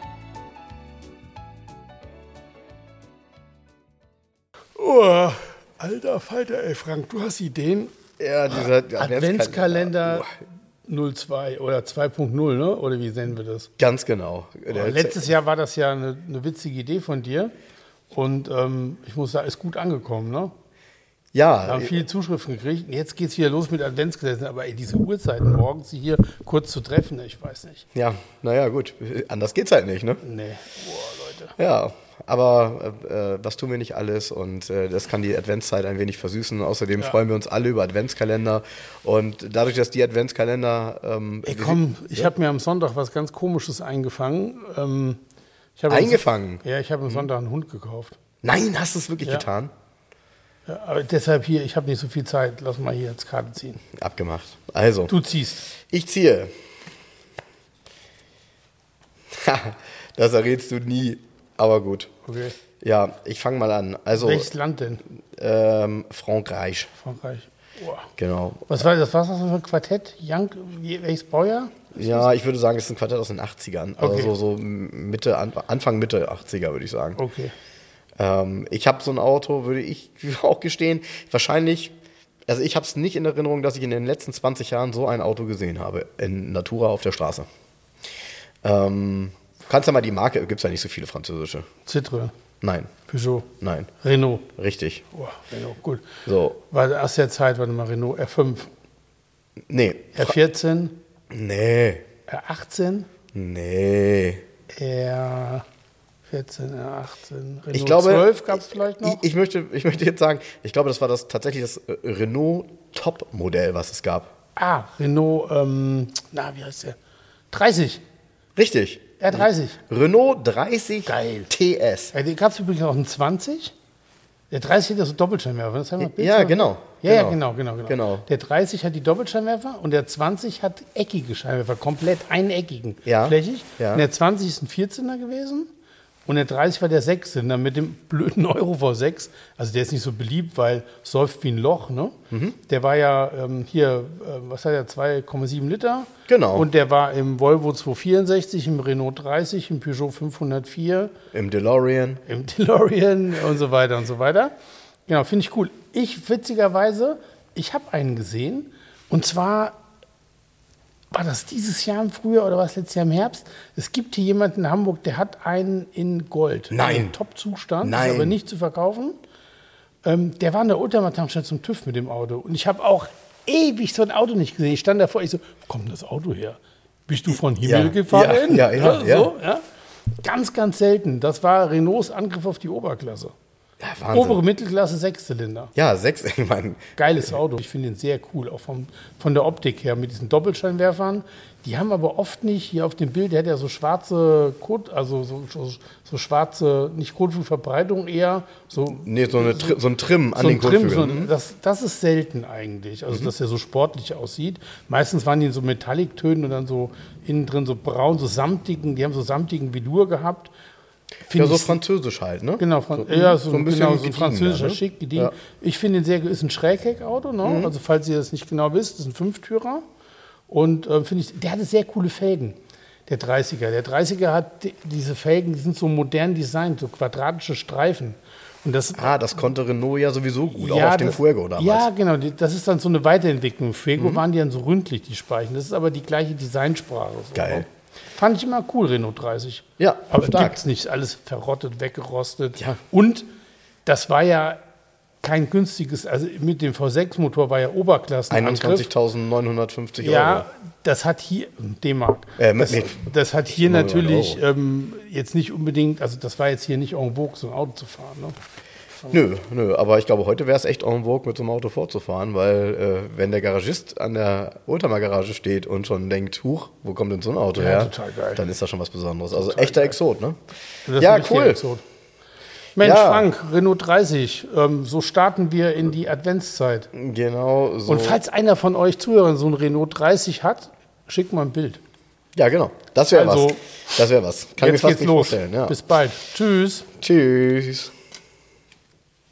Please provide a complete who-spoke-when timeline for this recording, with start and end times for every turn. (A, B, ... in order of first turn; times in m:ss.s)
0:04.8-0:07.9 A
0:08.2-0:10.3 B
0:08.5-0:10.3 A
0:10.9-0:13.7 A
0:13.8-0:15.3 B
0:14.7-0:17.5 A
0:18.1-0:20.5 A
0:21.3-0:22.0 B
0:21.6-0:27.8 A
0:28.0-0:30.2 B
0:30.2-0:31.6 A
0:31.6-0:42.3 B
0:41.4-0:45.2 A
0:45.8-0:48.2 A
0:45.9-0:47.3 B
0:48.4-0:49.7 B
0:50.7-0:53.8 A
0:53.9-0:55.1 B
0:55.1-0:55.7 A
0:55.8-0:56.5 B
0:59.3-1:02.1 B
1:02.3-1:02.6 A
1:02.8-1:04.5 B
1:04.2-1:05.0 A
1:05.3-1:06.9 B
1:07.0-1:08.1 A
1:08.2-1:08.8 B
1:08.7-1:12.2 A
1:12.0-1:17.2 B
1:14.0-1:14.3 A
1:17.2-1:17.5 A
1:18.2-1:21.9 B
1:22.5-1:27.5 B
1:28.6-1:31.7 B
1:31.9-1:32.3 A
1:32.6-1:32.9 B
1:33.1-1:34.5 A
1:33.6-1:33.9 B
1:34.6-1:35.0 B
1:35.1-1:38.7 A
1:36.3-1:36.6 B
1:39.7-1:40.4 B
1:40.1-1:41.0 A
1:41.3-1:42.0 B
1:42.3-1:43.1 A
1:43.3-1:44.4 B
1:44.7-1:45.6 A
1:46.3-1:49.2 A
1:47.7-1:54.3 B
1:54.6-1:57.0 A
1:57.5-1:58.0 A
1:58.6-2:02.1 B
1:59.2-1:59.8 A
2:01.1-2:01.5 A
2:02.1-2:03.7 A
2:04.5-2:15.7 A
2:06.0-2:08.3 B
2:13.1-2:14.0 B
2:16.3-2:31.1 A
2:22.3-2:22.6 B
2:26.3-2:26.7 B
2:31.3-2:32.2 B
2:32.3-2:34.5 A
2:35.1-2:39.8 A
2:41.1-2:49.2 A
2:46.7-2:47.2 B
2:47.8-2:48.4 B
2:50.0-2:59.6 A
2:57.6-2:59.3 B
3:00.2-3:03.3 A
3:03.8-3:04.4 B
3:04.1-3:05.7 A
3:05.8-3:07.3 B
3:07.0-3:19.8 A
3:18.9-3:21.3 B
3:20.4-3:30.5 A
3:31.3-3:31.8 A
3:31.3-3:35.3 B
3:32.6-3:39.8 A
3:37.4-3:37.7 B
3:40.5-3:42.6 A
3:43.1-3:49.4 A
3:49.0-3:51.9 B
3:50.5-4:03.3 A
3:54.0-3:54.2 B
3:57.4-3:57.6 B
3:59.8-4:00.6 B
4:03.8-4:04.6 A
4:05.2-4:08.9 A
4:08.3-4:10.5 B
4:10.0-4:18.4 A
4:12.4-4:14.4 B
4:19.1-4:30.4 B
4:27.6-4:28.5 A
4:29.3-4:30.0 A
4:30.9-4:31.8 A
4:31.0-4:31.6 B
4:32.8-4:36.9 A
4:32.8-4:33.3 B
4:36.9-4:38.2 B
4:37.9-4:41.8 A
4:42.4-4:45.8 B
4:43.1-4:44.0 A
4:44.6-4:46.9 A
4:47.0-4:47.9 B